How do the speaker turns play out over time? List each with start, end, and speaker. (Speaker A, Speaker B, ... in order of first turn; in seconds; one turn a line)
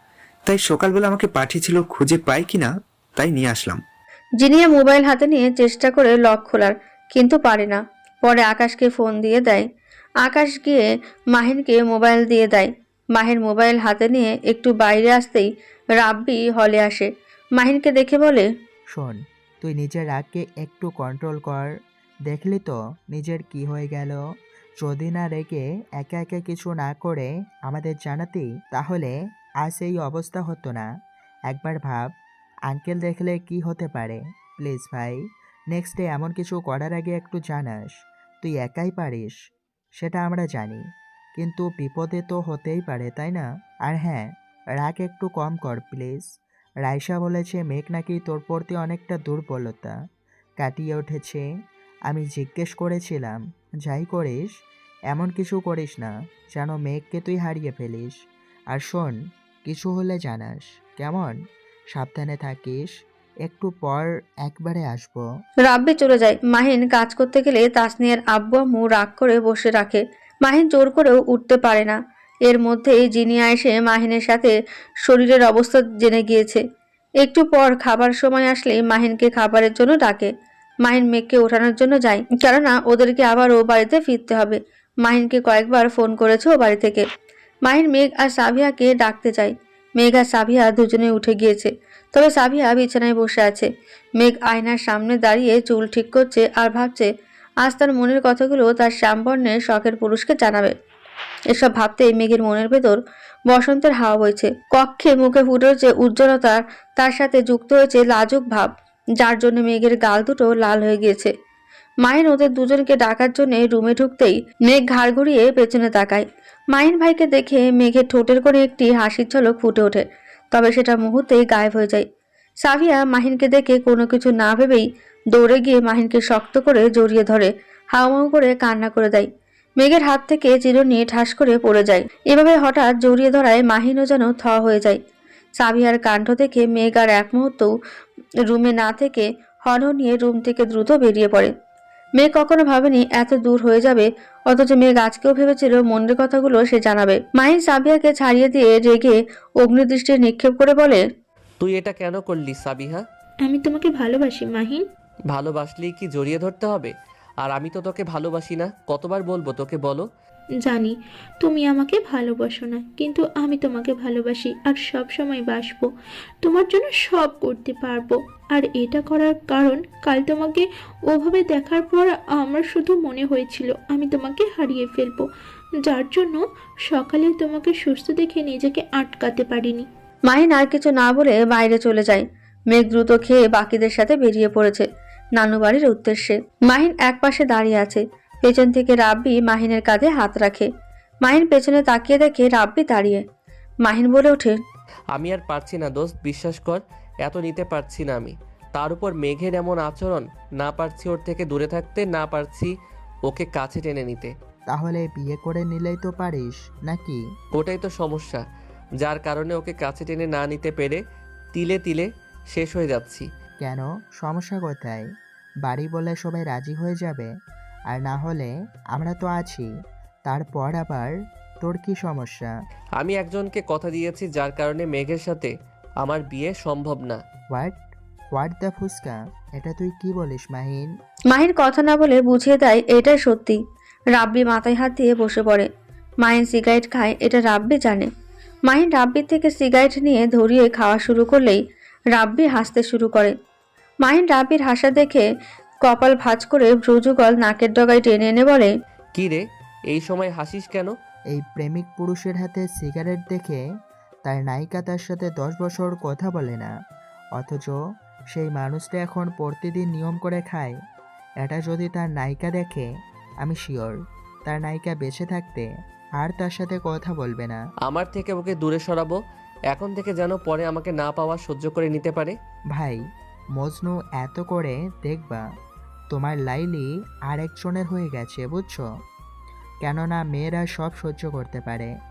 Speaker A: 0.5-3.8
Speaker B: 4.4-9.6
Speaker B: 10.2-15.5
Speaker B: 16.0-18.5
Speaker C: 18.9-21.7
Speaker C: 22.3-24.2
Speaker C: 24.8-30.9
Speaker C: 31.5-32.1
Speaker C: 32.7-35.2
Speaker C: 35.7-37.9
Speaker C: 38.4-39.4
Speaker C: 40.0-40.8
Speaker C: 41.4-46.3
Speaker C: 46.8-49.9
Speaker C: 50.6-51.4
Speaker C: 52.1-54.5
Speaker C: 55.1-58.1
Speaker C: 58.7-61.4
Speaker C: 61.9-62.9
Speaker C: 63.4-65.2
Speaker B: 65.7-76.6
Speaker B: 77.2-80.3
Speaker B: 80.8-87.0
Speaker B: 87.7-97.1
Speaker B: 97.6-100.7
Speaker B: 101.5-103.0
Speaker B: 103.5-111.3
Speaker B: 112.0-122.0
Speaker B: 122.6-129.3
Speaker B: 129.8-135.0
Speaker B: 135.6-137.7
Speaker B: 138.5-141.5
Speaker B: 142.2-151.0
Speaker D: 151.6-153.0
Speaker E: 153.4-154.8
Speaker D: 155.3-160.1
Speaker E: 160.6-165.9
Speaker E: 166.4-175.3
Speaker E: 175.8-179.9
Speaker B: 180.3-184.8
Speaker B: 185.3-190.7
Speaker B: 191.2-193.2
Speaker B: 193.8-194.6
Speaker D: 195.1-202.7
Speaker D: 203.2-204.3
Speaker C: 204.7-207.2
Speaker D: 207.5-208.4
Speaker D: 209.0-211.0
Speaker D: 211.5-213.3
Speaker C: 213.6-215.0
Speaker C: 215.6-217.3
Speaker C: 217.9-219.7
Speaker C: 220.3-222.5
Speaker D: 223.0-227.2
Speaker C: 227.5-227.8
Speaker C: 228.3-230.9
Speaker B: 231.3-233.6
Speaker B: 234.1-235.7
Speaker B: 236.2-238.1
Speaker B: 238.7-241.6
Speaker B: 242.1-243.3
Speaker B: 244.0-245.2
Speaker B: 245.8-248.7
Speaker D: 249.1-250.9
Speaker C: 251.3-253.6
Speaker C: 254.2-256.7
Speaker C: 257.4-257.7
Speaker C: 258.3-260.7
Speaker C: 261.4-262.9
Speaker C: 263.4-265.7
Speaker C: 266.2-267.6
Speaker D: 267.8-269.2
Speaker D: 269.7-272.3
Speaker C: 272.7-273.0
Speaker C: 273.6-275.4
Speaker C: 276.1-278.8
Speaker C: 279.8-281.9